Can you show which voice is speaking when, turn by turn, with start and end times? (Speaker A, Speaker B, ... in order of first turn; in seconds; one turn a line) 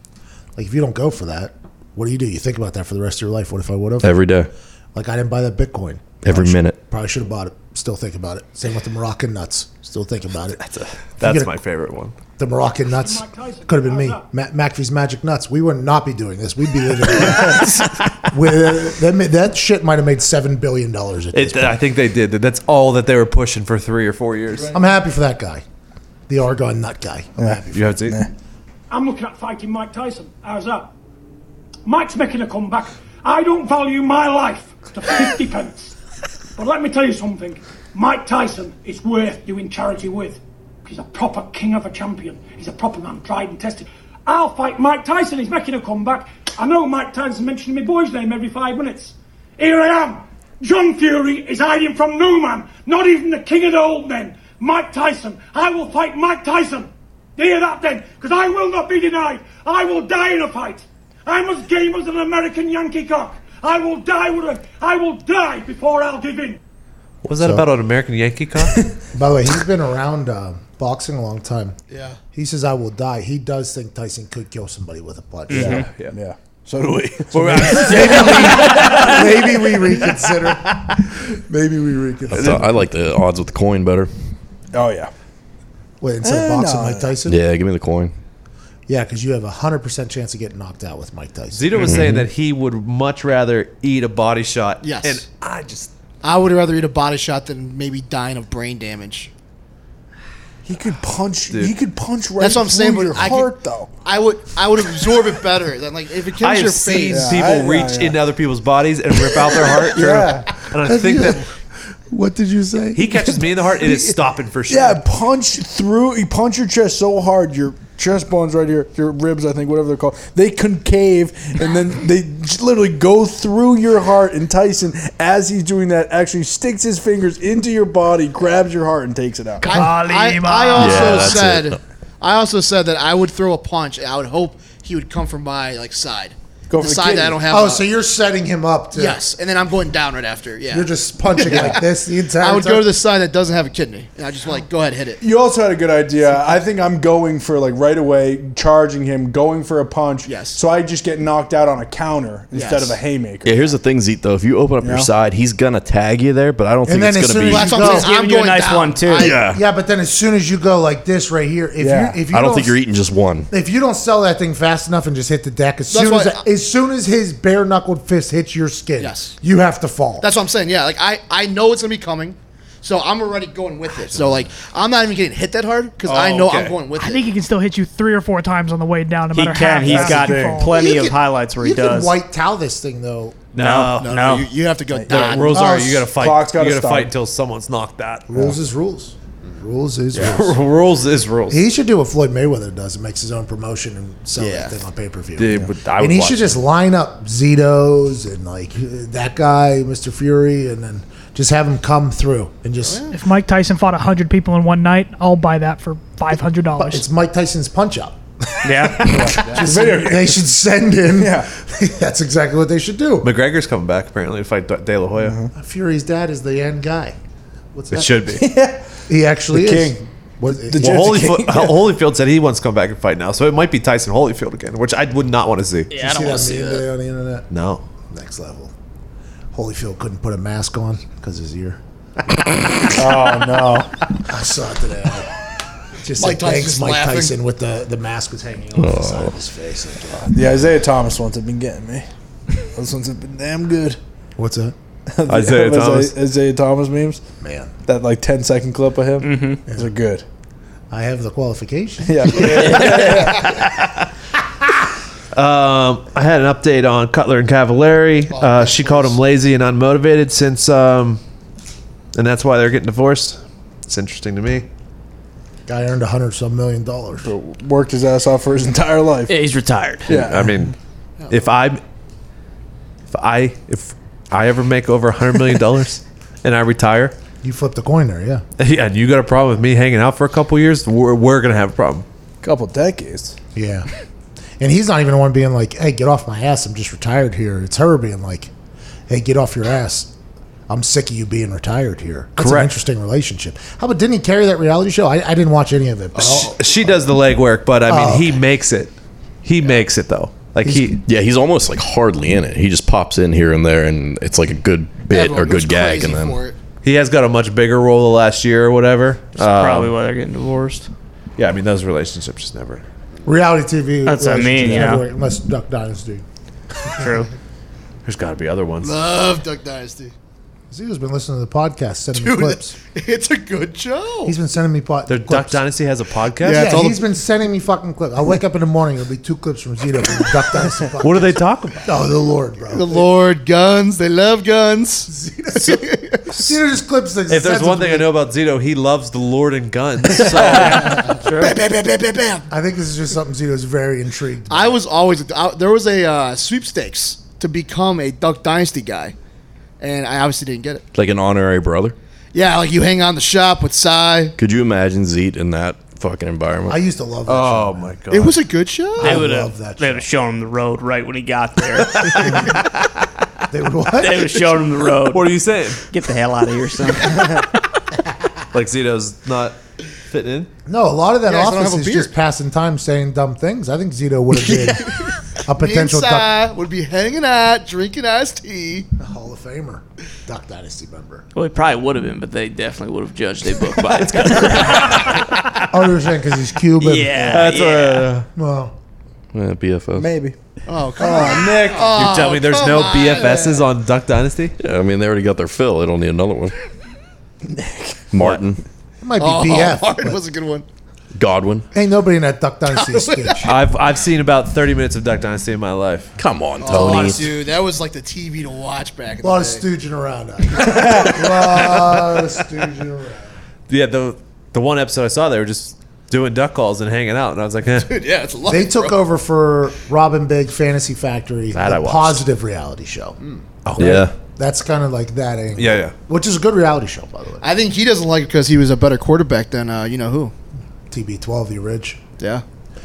Speaker A: 0.6-4.2
Speaker B: 4.0-4.5
Speaker A: 4.9-10.6
Speaker B: 6.2-6.8
Speaker C: 10.6-12.1
Speaker A: 11.2-11.5
Speaker A: 12.4-21.8
Speaker D: 12.8-14.2
Speaker C: 21.3-24.8
Speaker A: 24.7-25.6
Speaker A: 26.3-28.0
Speaker E: 27.4-28.3
Speaker C: 27.7-28.2
Speaker D: 28.9-30.9
Speaker D: 31.9-35.9
Speaker D: 36.6-66.6
Speaker C: 67.2-68.9
Speaker A: 67.4-67.7
Speaker A: 69.1-71.8
Speaker F: 71.9-72.2
Speaker A: 72.3-75.9
Speaker G: 75.5-75.9
Speaker E: 75.6-79.1
Speaker C: 75.6-76.1
Speaker C: 77.3-79.3
Speaker A: 77.8-82.7
Speaker G: 78.5-79.0
Speaker C: 80.7-81.0
Speaker B: 82.3-84.1
Speaker C: 82.3-82.7
Speaker E: 84.7-85.1
Speaker A: 86.0-87.4
Speaker E: 86.2-87.1
Speaker B: 87.2-88.1
Speaker A: 88.9-92.0
Speaker C: 91.5-95.9
Speaker B: 91.8-92.2
Speaker F: 94.8-95.2
Speaker F: 96.2-99.3
Speaker E: 100.6-103.9
Speaker F: 102.4-107.3
Speaker C: 106.4-111.4
Speaker E: 107.1-108.2
Speaker E: 109.8-110.5
Speaker A: 110.8-111.4
Speaker A: 112.1-113.3
Speaker C: 112.9-115.0
Speaker E: 114.7-129.7
Speaker H: 129.6-131.3
Speaker F: 129.6-137.9
Speaker B: 130.8-131.8
Speaker E: 136.7-137.4
Speaker A: 137.5-139.2
Speaker F: 138.9-145.2
Speaker A: 140.7-142.9
Speaker E: 141.5-141.8
Speaker E: 145.2-153.7
Speaker F: 150.2-150.6
Speaker F: 152.5-153.0
Speaker B: 153.4-157.7
Speaker E: 154.8-155.1
Speaker A: 156.8-158.1
Speaker F: 157.4-159.4
Speaker G: 157.7-159.3
Speaker B: 159.2-159.6
Speaker A: 159.4-162.8
Speaker E: 161.8-162.2
Speaker B: 162.3-163.5
Speaker A: 163.5-170.3
Speaker F: 165.9-166.4
Speaker F: 169.0-169.3
Speaker F: 170.2-177.2
Speaker A: 174.1-174.4
Speaker C: 176.1-176.8
Speaker H: 176.9-180.9
Speaker G: 179.3-182.1
Speaker E: 179.8-180.6
Speaker F: 180.7-181.2
Speaker A: 181.6-183.5
Speaker G: 183.5-184.5
Speaker F: 183.6-185.7
Speaker E: 184.9-187.1
Speaker C: 185.1-188.3
Speaker A: 185.5-186.1
Speaker A: 188.3-190.6
Speaker C: 190.1-191.6
Speaker A: 191.5-203.1
Speaker F: 194.3-194.8
Speaker C: 195.4-196.6
Speaker F: 202.8-203.2
Speaker H: 203.1-207.1
Speaker A: 206.8-213.3
Speaker G: 208.6-209.4
Speaker E: 209.1-210.4
Speaker E: 211.2-211.5
Speaker C: 213.2-215.4
Speaker E: 215.2-215.5
Speaker A: 215.5-217.2
Speaker A: 217.7-218.3
Speaker C: 217.9-218.5
Speaker E: 218.4-218.8
Speaker A: 219.1-221.2
Speaker E: 219.5-221.8
Speaker C: 220.8-225.9
Speaker G: 225.9-226.9
Speaker A: 225.9-227.5
Speaker C: 227.5-227.8
Speaker A: 228.1-228.7
Speaker A: 229.5-231.8
Speaker E: 232.9-233.9
Speaker A: 234.3-235.3
Speaker A: 236.0-240.4
Speaker F: 236.2-237.3
Speaker B: 238.8-239.4
Speaker E: 240.3-242.1
Speaker E: 242.6-244.0
Speaker A: 244.4-244.7
Speaker E: 245.1-247.2
Speaker C: 245.3-246.1
Speaker A: 247.4-247.7
Speaker E: 247.8-250.2
Speaker G: 249.2-249.6
Speaker A: 250.9-253.1
Speaker E: 252.0-253.5
Speaker C: 255.3-261.2
Speaker F: 258.3-259.2
Speaker C: 262.1-264.7
Speaker A: 265.6-267.3
Speaker E: 267.2-269.4
Speaker G: 269.3-270.1
Speaker E: 270.1-270.6
Speaker C: 270.1-270.7
Speaker F: 271.2-271.5
Speaker C: 271.3-271.8
Speaker C: 273.1-277.1
Speaker A: 277.4-278.4
Speaker C: 278.6-282.0
Speaker E: 282.4-283.4
Speaker A: 283.5-283.9
Speaker A: 284.6-288.5
Speaker A: 289.1-290.1
Speaker A: 290.7-296.6
Speaker C: 292.4-292.8
Speaker C: 296.1-301.0
Speaker A: 297.9-298.4
Speaker A: 300.6-300.9
Speaker B: 301.1-306.4
Speaker F: 305.1-306.6
Speaker C: 306.8-309.9
Speaker G: 309.4-310.9
Speaker C: 311.4-312.8
Speaker A: 313.2-316.2
Speaker G: 314.1-315.1
Speaker G: 316.9-317.3
Speaker C: 318.0-319.0
Speaker F: 318.8-320.1
Speaker A: 320.7-322.8
Speaker F: 322.1-324.4
Speaker A: 324.2-325.7
Speaker C: 325.1-326.7
Speaker F: 326.4-327.1
Speaker A: 326.4-333.0
Speaker C: 331.0-332.0
Speaker F: 332.7-336.2
Speaker A: 335.1-335.9
Speaker A: 336.4-338.1
Speaker C: 337.3-341.3
Speaker F: 340.1-342.5
Speaker A: 342.5-344.8
Speaker F: 344.5-349.1
Speaker F: 349.8-350.8
Speaker B: 350.9-351.9
Speaker F: 352.3-354.3
Speaker B: 354.4-356.8
Speaker A: 356.7-357.9
Speaker C: 357.2-358.4
Speaker F: 358.1-359.3
Speaker A: 359.0-360.1
Speaker G: 359.0-362.6
Speaker A: 363.5-364.4
Speaker G: 363.9-365.3
Speaker C: 365.1-365.8
Speaker G: 365.9-367.5
Speaker C: 368.5-369.6
Speaker C: 370.1-370.5
Speaker A: 370.6-376.4
Speaker F: 371.2-372.1
Speaker F: 374.3-378.9
Speaker A: 379.0-381.3
Speaker G: 381.3-385.7
Speaker C: 384.2-384.4
Speaker A: 385.7-387.2
Speaker G: 386.8-388.2
Speaker C: 387.3-388.3
Speaker A: 388.3-388.7
Speaker B: 389.3-390.1
Speaker E: 389.9-390.3
Speaker F: 390.7-393.7
Speaker E: 391.0-392.1
Speaker C: 391.9-394.6
Speaker B: 394.6-396.5
Speaker E: 397.5-397.9
Speaker B: 398.1-398.6
Speaker A: 399.0-400.2
Speaker F: 399.2-400.6
Speaker B: 401.1-401.7
Speaker A: 401.7-403.5
Speaker F: 402.7-403.5
Speaker C: 403.4-406.1
Speaker B: 406.2-407.3
Speaker F: 406.6-409.7
Speaker A: 409.2-413.2
Speaker F: 410.5-412.2
Speaker C: 413.7-417.9
Speaker F: 417.8-419.0
Speaker A: 418.4-423.2
Speaker C: 421.5-422.2
Speaker C: 423.6-424.1
Speaker B: 423.8-424.1
Speaker A: 423.8-427.4
Speaker C: 425.5-425.9
Speaker F: 427.4-430.3
Speaker A: 430.9-432.0
Speaker F: 432.2-432.4